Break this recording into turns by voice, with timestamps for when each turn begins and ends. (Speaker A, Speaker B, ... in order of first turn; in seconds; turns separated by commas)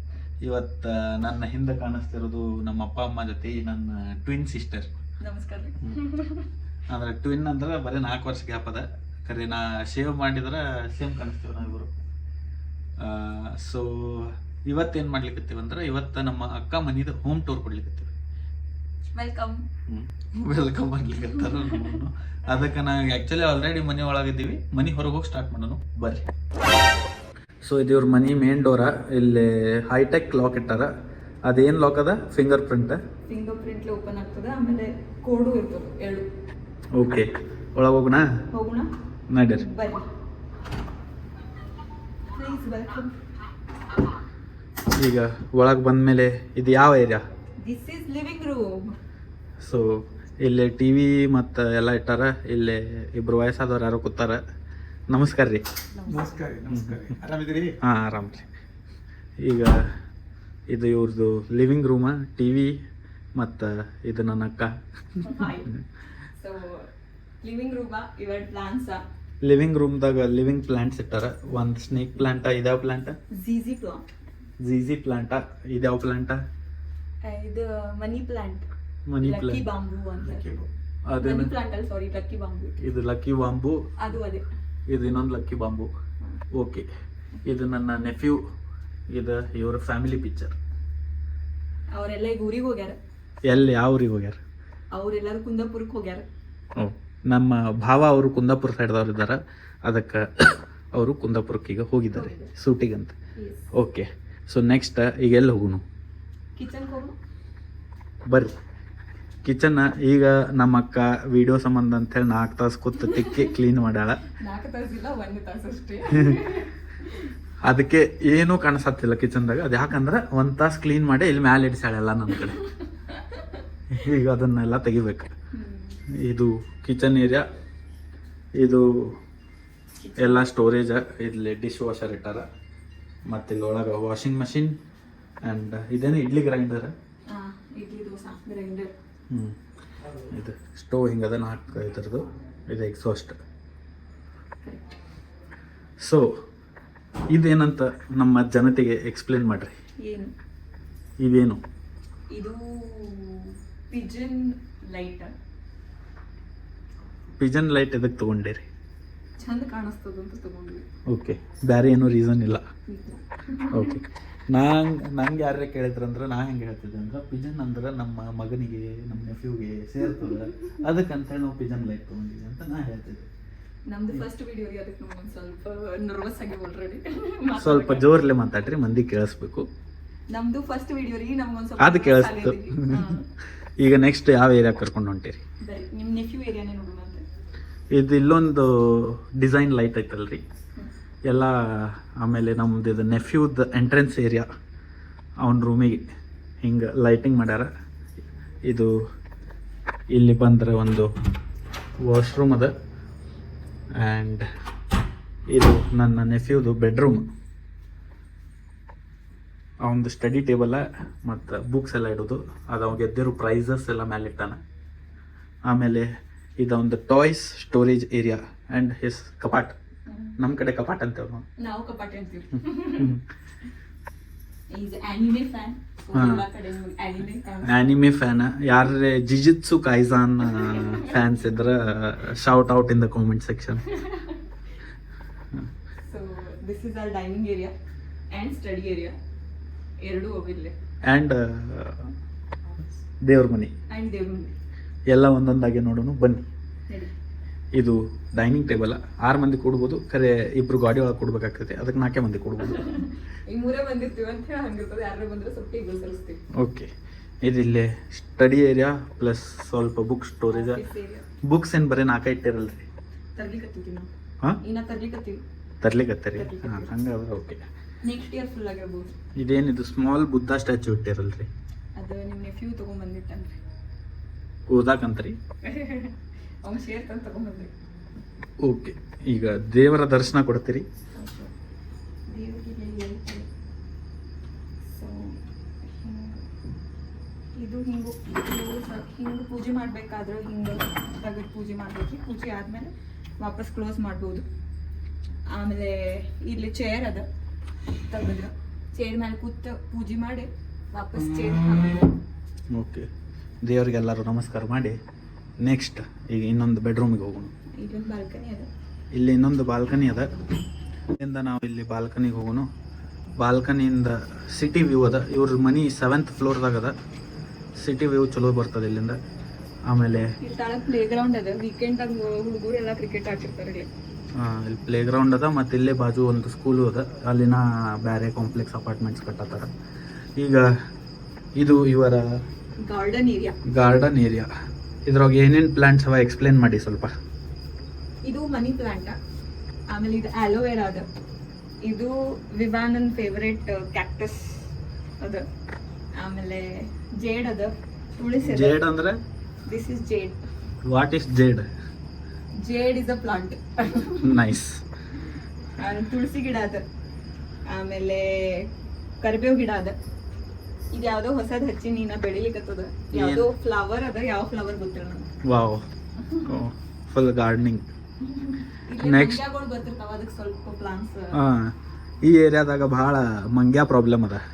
Speaker A: 0.4-5.0, Speaker B: 5.2-6.5, Speaker A: 6.9-11.9, Speaker A: 13.0-18.1, Speaker B: 19.1-19.7, Speaker A: 19.9-26.2, Speaker B: 21.3-22.0, Speaker A: 27.6-30.9, Speaker A: 31.4-33.0, Speaker B: 33.3-36.3, Speaker A: 36.9-38.2, Speaker B: 38.5-38.9, Speaker A: 39.3-39.6, Speaker B: 39.5-40.0, Speaker B: 42.3-43.1, Speaker A: 45.0-47.2, Speaker B: 47.6-49.0, Speaker A: 49.6-54.4, Speaker A: 55.1-55.6, Speaker B: 55.9-56.4, Speaker C: 56.1-57.8, Speaker A: 56.7-57.1, Speaker A: 57.8-58.5, Speaker A: 59.4-59.9, Speaker A: 60.7-62.7, Speaker A: 63.4-65.8, Speaker B: 65.2-65.7, Speaker B: 66.3-69.0, Speaker A: 69.4-73.2, Speaker B: 73.3-74.0, Speaker A: 74.6-76.4, Speaker B: 77.2-78.7, Speaker A: 79.1-79.6, Speaker B: 79.2-80.5, Speaker C: 80.3-80.7, Speaker A: 81.1-81.5, Speaker B: 81.2-82.8, Speaker A: 82.8-83.8, Speaker B: 84.0-84.5, Speaker A: 84.9-85.9, Speaker A: 86.5-86.8, Speaker A: 87.4-88.4, Speaker A: 89.1-90.6, Speaker B: 91.9-93.0, Speaker A: 93.4-94.4, Speaker B: 94.9-96.2, Speaker A: 96.8-103.1, Speaker B: 102.1-102.5, Speaker B: 103.4-103.7, Speaker A: 103.7-105.8, Speaker B: 106.5-107.1, Speaker A: 108.3-108.5, Speaker A: 109.4-114.3, Speaker B: 113.1-113.5, Speaker B: 114.4-117.3, Speaker A: 117.6-122.6, Speaker B: 122.5-123.6, Speaker A: 123.9-125.3, Speaker B: 125.5-126.0, Speaker A: 126.2-127.5, Speaker A: 128.6-129.1, Speaker B: 130.0-130.5, Speaker A: 130.2-132.4, Speaker A: 133.3-134.7, Speaker A: 135.4-136.9, Speaker B: 137.3-138.9, Speaker A: 139.3-139.6, Speaker A: 140.2-143.4, Speaker A: 146.0-146.3, Speaker A: 147.3-149.7, Speaker B: 150.0-150.3, Speaker A: 151.2-151.6, Speaker B: 152.3-155.3, Speaker A: 157.4-158.7, Speaker B: 159.4-160.8, Speaker A: 161.1-162.6, Speaker B: 162.9-164.0, Speaker A: 163.7-173.3, Speaker B: 170.2-170.7, Speaker B: 173.9-178.1, Speaker A: 177.6-179.7, Speaker B: 180.3-183.3, Speaker A: 181.8-183.1, Speaker A: 183.8-185.4, Speaker B: 185.6-187.2, Speaker A: 187.9-190.4, Speaker A: 191.3-194.4, Speaker A: 195.4-196.0, Speaker A: 196.6-197.7, Speaker A: 200.1-201.1, Speaker A: 202.0-202.7, Speaker A: 204.0-204.4, Speaker A: 205.5-207.2, Speaker A: 209.8-214.6, Speaker A: 215.7-219.8, Speaker B: 220.1-220.3, Speaker A: 220.4-221.4, Speaker B: 221.6-223.2, Speaker A: 223.0-223.2, Speaker B: 224.7-227.8, Speaker A: 226.1-226.4, Speaker A: 227.6-233.9, Speaker B: 230.4-231.3, Speaker B: 233.9-234.5, Speaker B: 236.0-237.7, Speaker B: 238.3-239.2, Speaker B: 240.0-240.7, Speaker A: 241.1-242.1, Speaker A: 243.2-243.7, Speaker B: 243.9-244.6, Speaker A: 245.1-246.4, Speaker A: 247.8-253.0, Speaker B: 252.6-256.4, Speaker A: 256.6-256.9, Speaker A: 257.4-260.8, Speaker B: 260.5-261.3, Speaker A: 261.4-262.9, Speaker B: 263.4-264.1, Speaker B: 264.6-265.4, Speaker A: 265.8-267.6, Speaker B: 266.3-266.9, Speaker B: 268.0-269.1, Speaker A: 269.4-271.5, Speaker B: 271.9-273.6, Speaker A: 274.7-275.4, Speaker B: 275.6-277.7, Speaker A: 278.6-280.9, Speaker B: 281.1-281.5, Speaker B: 282.3-283.5, Speaker B: 284.9-285.4, Speaker B: 286.0-286.4, Speaker B: 287.6-294.4, Speaker B: 295.5-297.2, Speaker B: 298.1-302.1, Speaker A: 302.7-303.1, Speaker A: 303.6-304.9, Speaker A: 305.6-307.5, Speaker B: 307.8-308.7, Speaker A: 309.1-310.3, Speaker A: 311.2-312.6, Speaker A: 313.4-316.9, Speaker A: 317.8-319.1, Speaker A: 319.9-320.3, Speaker B: 320.4-323.9, Speaker A: 324.4-329.7, Speaker A: 330.4-330.6, Speaker A: 331.6-332.2, Speaker B: 332.8-333.6, Speaker A: 333.6-334.5, Speaker A: 335.1-337.1, Speaker B: 338.2-339.2, Speaker B: 339.9-341.1, Speaker B: 341.8-345.4, Speaker B: 346.2-348.8, Speaker A: 348.4-349.2, Speaker B: 349.6-350.4, Speaker A: 350.9-351.7, Speaker B: 352.6-354.4, Speaker A: 354.2-354.8, Speaker B: 355.8-356.8, Speaker B: 357.7-359.9, Speaker B: 360.9-365.3, Speaker A: 363.1-363.4, Speaker A: 365.4-365.8, Speaker A: 366.4-367.9, Speaker B: 368.3-371.4, Speaker A: 369.0-369.4, Speaker A: 371.3-374.4